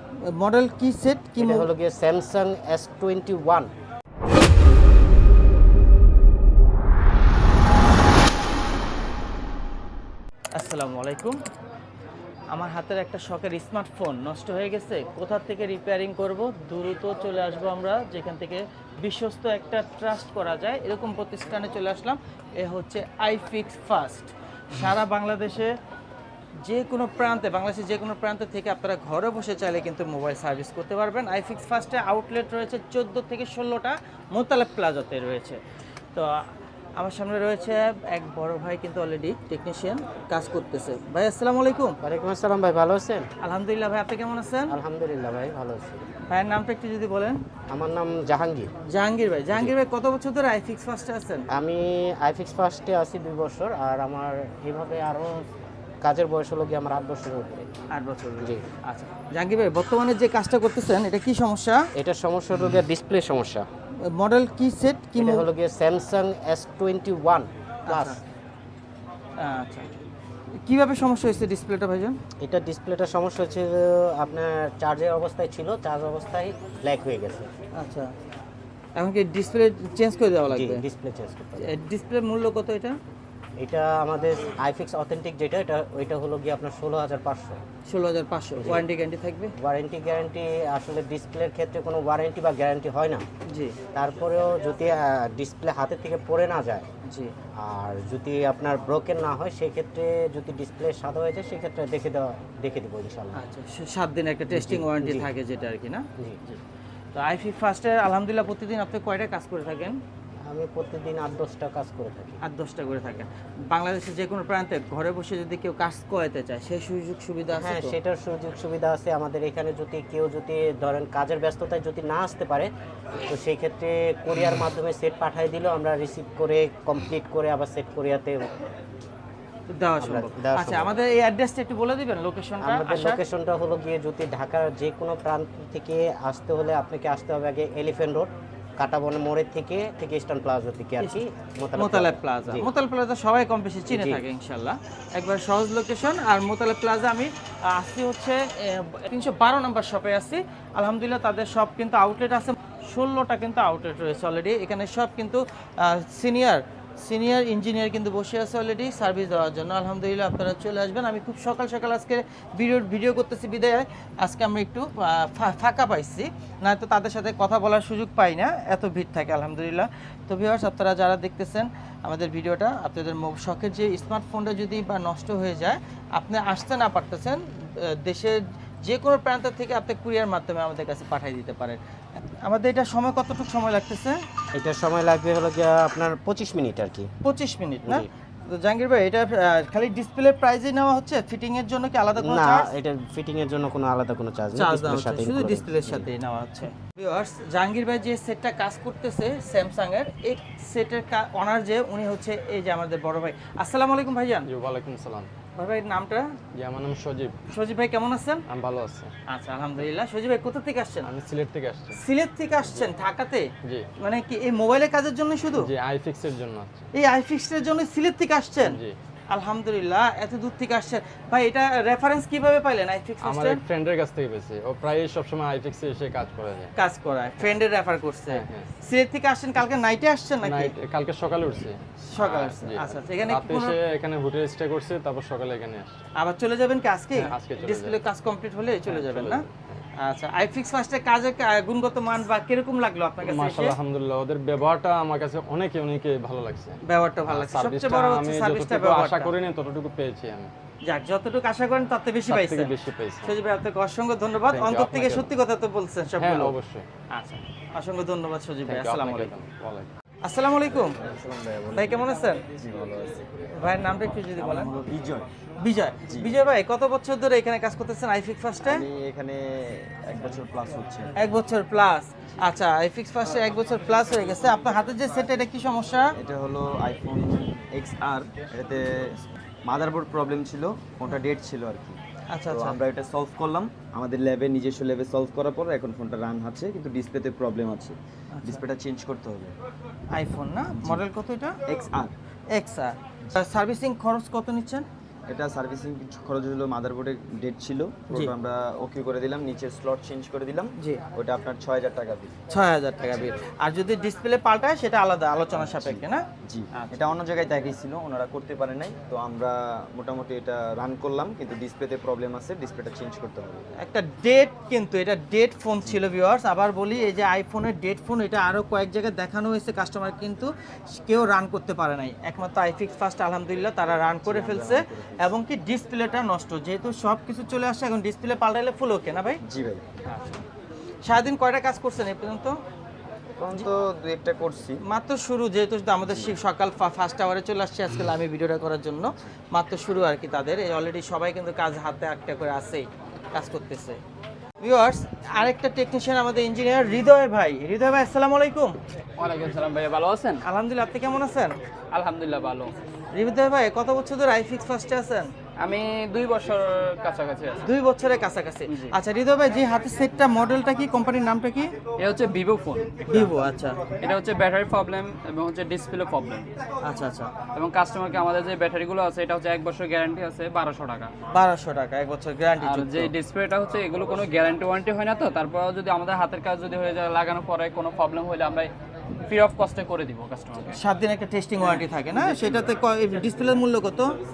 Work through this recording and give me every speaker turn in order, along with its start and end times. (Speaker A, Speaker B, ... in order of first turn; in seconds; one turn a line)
Speaker A: 0.2-1.7
Speaker B: 1.4-3.7
Speaker A: 10.6-11.4
Speaker A: 12.5-25.7
Speaker A: 26.6-35.6
Speaker A: 36.1-42.0
Speaker B: 42.0-43.3
Speaker A: 43.4-44.7
Speaker B: 44.7-46.0
Speaker A: 46.3-47.4
Speaker B: 47.7-48.7
Speaker A: 48.9-51.5
Speaker B: 51.5-55.5
Speaker B: 56.0-57.7
Speaker A: 57.9-61.8
Speaker B: 62.0-63.7
Speaker A: 64.0-65.5
Speaker B: 65.2-68.2
Speaker A: 67.9-68.2
Speaker A: 69.4-69.9
Speaker A: 70.6-72.2
Speaker B: 72.4-77.5
Speaker A: 77.8-78.1
Speaker A: 79.0-80.8
Speaker B: 80.5-81.7
Speaker A: 81.6-83.0
Speaker B: 83.6-87.6
Speaker A: 87.9-89.5
Speaker B: 88.6-88.8
Speaker B: 89.6-93.2
Speaker A: 93.5-93.8
Speaker B: 93.9-96.9
Speaker A: 97.0-97.3
Speaker B: 97.6-103.4
Speaker A: 103.3-106.6
Speaker B: 104.5-105.3
Speaker A: 107.2-110.0
Speaker B: 110.5-112.4
Speaker A: 112.4-118.0
Speaker B: 117.5-122.7
Speaker B: 123.3-128.4
Speaker A: 129.7-133.2
Speaker B: 130.0-130.9
Speaker B: 132.6-142.7
Speaker A: 141.8-181.8
Speaker B: 143.9-144.2
Speaker A: 182.4-184.2
Speaker B: 184.6-187.1
Speaker A: 187.2-192.7
Speaker B: 192.2-196.1
Speaker A: 194.6-204.5
Speaker C: 204.5-205.3
Speaker A: 205.6-206.3
Speaker C: 206.6-207.4
Speaker A: 207.5-208.4
Speaker C: 208.5-209.1
Speaker A: 209.3-211.1
Speaker C: 211.1-212.0
Speaker A: 211.9-213.5
Speaker A: 214.0-215.7
Speaker C: 215.6-216.9
Speaker A: 216.9-223.6
Speaker C: 218.7-218.9
Speaker C: 223.2-226.7
Speaker A: 226.8-230.7
Speaker C: 228.3-228.7
Speaker C: 230.4-236.0
Speaker A: 232.1-233.8
Speaker A: 236.2-239.5
Speaker C: 237.3-238.0
Speaker C: 238.9-239.8
Speaker A: 240.0-243.8
Speaker C: 243.3-250.5
Speaker A: 246.9-249.3
Speaker A: 250.9-256.6
Speaker C: 252.3-253.3
Speaker C: 254.5-255.3
Speaker C: 256.2-256.9
Speaker A: 257.1-259.3
Speaker C: 258.7-259.9
Speaker A: 260.2-261.0
Speaker D: 261.0-261.9
Speaker A: 261.8-262.4
Speaker D: 262.6-263.3
Speaker A: 263.6-264.9
Speaker D: 264.4-265.3
Speaker A: 265.6-268.8
Speaker D: 266.1-266.3
Speaker D: 268.6-271.1
Speaker A: 271.2-276.1
Speaker D: 276.2-282.0
Speaker A: 282.3-282.8
Speaker D: 282.5-289.5
Speaker A: 288.3-288.6
Speaker A: 290.1-291.6
Speaker D: 291.7-292.1
Speaker A: 292.5-294.9
Speaker D: 295.3-302.4
Speaker A: 302.5-307.0
Speaker D: 305.6-313.7
Speaker A: 313.8-329.4
Speaker D: 324.2-325.3
Speaker D: 329.4-330.0
Speaker A: 330.1-330.4
Speaker A: 331.0-332.6
Speaker D: 333.4-334.8
Speaker A: 334.9-344.0
Speaker D: 336.1-336.4
Speaker A: 344.6-348.8
Speaker E: 349.2-350.4
Speaker A: 350.4-351.5
Speaker E: 351.9-352.8
Speaker A: 353.1-355.3
Speaker E: 355.6-357.7
Speaker A: 357.6-361.8
Speaker E: 358.7-359.0
Speaker E: 362.0-363.3
Speaker A: 363.1-363.9
Speaker E: 363.9-366.5
Speaker A: 366.8-367.4
Speaker E: 367.4-371.1
Speaker A: 371.3-373.1
Speaker E: 372.6-378.7
Speaker E: 379.3-380.8
Speaker A: 380.7-384.1